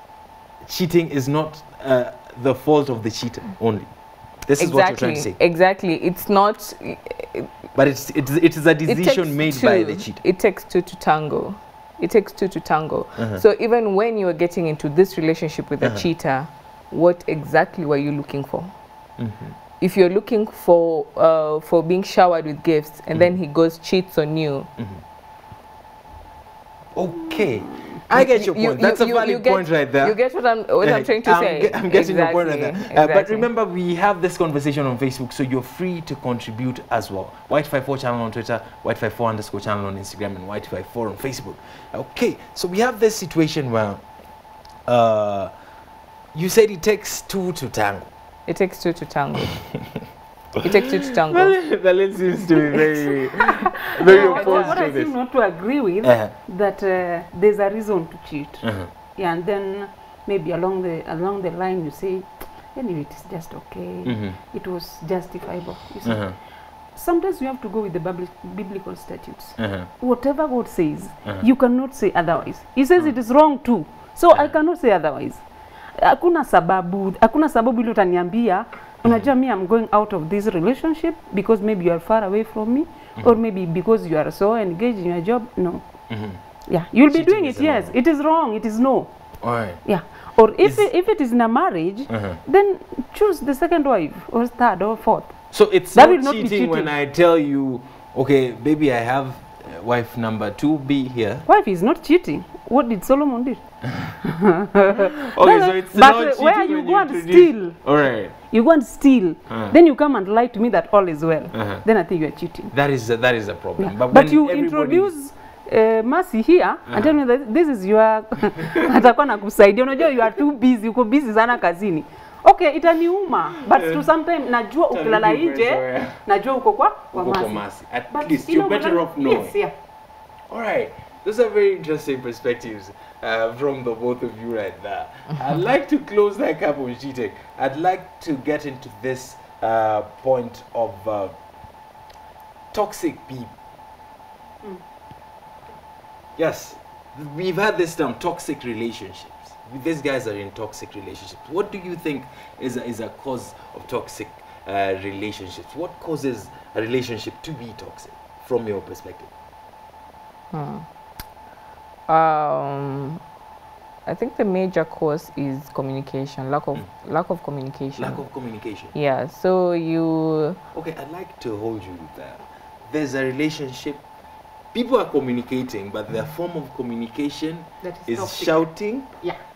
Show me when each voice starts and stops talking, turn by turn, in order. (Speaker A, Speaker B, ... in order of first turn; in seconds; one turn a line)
Speaker A: 0.6-3.9
Speaker A: 4.5-5.4
Speaker B: 4.6-7.5
Speaker A: 7.8-10.2
Speaker B: 8.8-18.7
Speaker A: 13.2-13.4
Speaker A: 15.8-16.1
Speaker A: 19.2-19.6
Speaker B: 19.8-24.7
Speaker A: 26.9-30.2
Speaker C: 27.4-28.0
Speaker B: 28.1-33.5
Speaker A: 30.8-44.0
Speaker A: 44.9-45.5
Speaker A: 46.3-48.1
Speaker B: 48.5-49.6
Speaker B: 50.6-51.6
Speaker A: 51.2-55.1
Speaker C: 52.7-66.4
Speaker B: 54.0-54.8
Speaker A: 56.0-56.3
Speaker A: 58.6-58.9
Speaker A: 64.0-64.4
Speaker A: 66.0-66.4
Speaker C: 66.9-75.4
Speaker A: 69.6-69.9
Speaker C: 76.0-85.8
Speaker A: 79.0-79.3
Speaker A: 86.1-86.4
Speaker C: 86.7-89.1
Speaker A: 87.1-87.9
Speaker A: 89.4-89.8
Speaker C: 89.8-96.9
Speaker A: 90.6-90.9
Speaker A: 92.1-92.4
Speaker A: 95.5-101.5
Speaker C: 101.5-103.6
Speaker C: 104.2-112.7
Speaker A: 104.9-108.4
Speaker A: 109.5-109.8
Speaker A: 111.5-111.8
Speaker A: 112.7-115.1
Speaker C: 113.8-129.7
Speaker A: 116.9-117.2
Speaker A: 123.7-124.1
Speaker A: 124.9-126.2
Speaker A: 127.1-129.6
Speaker A: 130.5-141.3
Speaker A: 142.7-143.5
Speaker A: 146.4-159.3
Speaker B: 160.5-160.9
Speaker B: 162.1-163.2
Speaker B: 164.1-168.3
Speaker A: 168.0-168.9
Speaker B: 168.9-170.6
Speaker A: 170.7-174.0
Speaker A: 174.7-179.2
Speaker C: 177.8-179.4